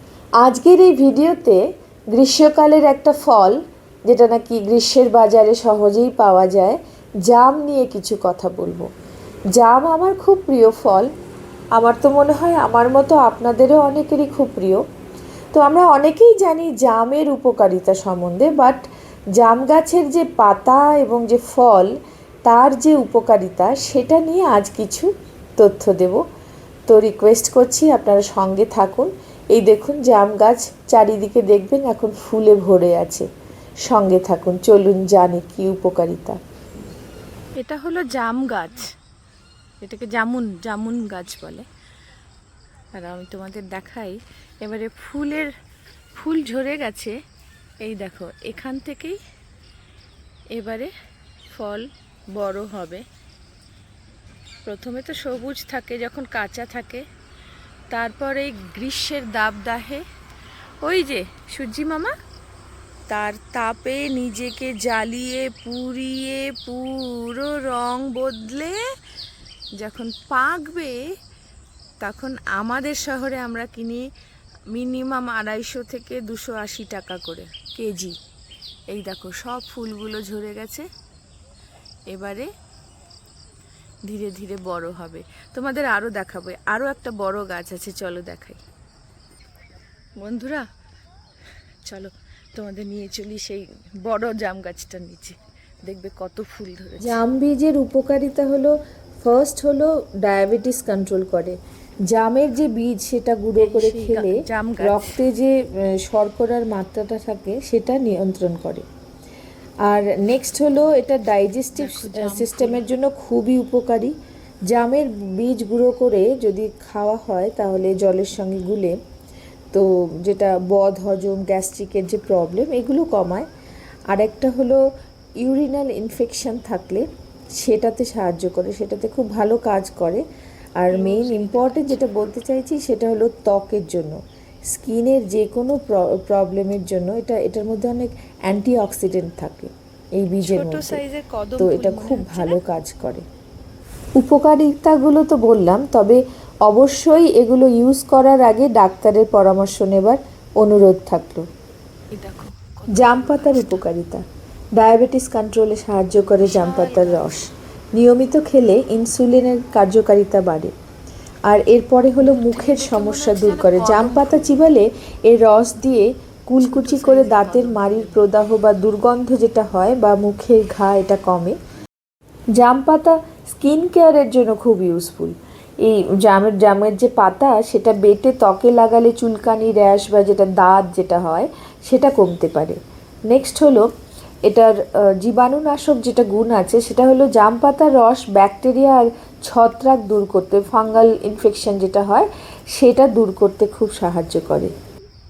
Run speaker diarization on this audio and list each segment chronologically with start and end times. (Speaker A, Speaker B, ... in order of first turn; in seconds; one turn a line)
Speaker A: 0.4-1.6
Speaker A: 2.1-8.9
Speaker A: 9.5-11.1
Speaker A: 11.8-14.8
Speaker A: 15.5-18.8
Speaker A: 19.4-21.9
Speaker A: 22.4-26.2
Speaker A: 26.9-33.3
Speaker A: 33.8-36.4
Speaker B: 37.5-38.9
Speaker B: 39.8-41.6
Speaker B: 43.0-45.5
Speaker B: 46.1-47.1
Speaker B: 47.8-49.2
Speaker B: 50.5-50.9
Speaker B: 51.5-53.0
Speaker B: 54.6-57.0
Speaker B: 57.9-60.0
Speaker B: 60.8-62.1
Speaker B: 63.1-68.8
Speaker B: 69.8-71.0
Speaker B: 72.0-74.1
Speaker B: 74.7-78.1
Speaker A: 77.7-78.0
Speaker B: 78.9-80.8
Speaker B: 82.1-82.5
Speaker B: 84.1-88.6
Speaker A: 86.1-86.4
Speaker B: 90.2-90.7
Speaker B: 91.8-97.2
Speaker A: 97.0-101.6
Speaker A: 102.1-108.8
Speaker B: 103.6-105.2
Speaker A: 109.8-114.1
Speaker B: 111.7-112.8
Speaker A: 114.7-119.0
Speaker A: 119.7-123.5
Speaker A: 124.1-124.8
Speaker A: 125.4-127.0
Speaker A: 127.6-130.2
Speaker A: 130.8-141.0
Speaker B: 130.9-132.0
Speaker B: 140.4-142.6
Speaker A: 141.6-143.2
Speaker A: 144.2-151.4
Speaker B: 152.1-153.9
Speaker A: 152.9-154.2
Speaker A: 154.8-160.7
Speaker B: 156.4-157.4
Speaker A: 161.4-171.6
Speaker B: 162.2-164.6
Speaker B: 166.6-168.2
Speaker A: 172.6-182.8
Speaker A: 183.3-183.9
Speaker A: 184.4-194.7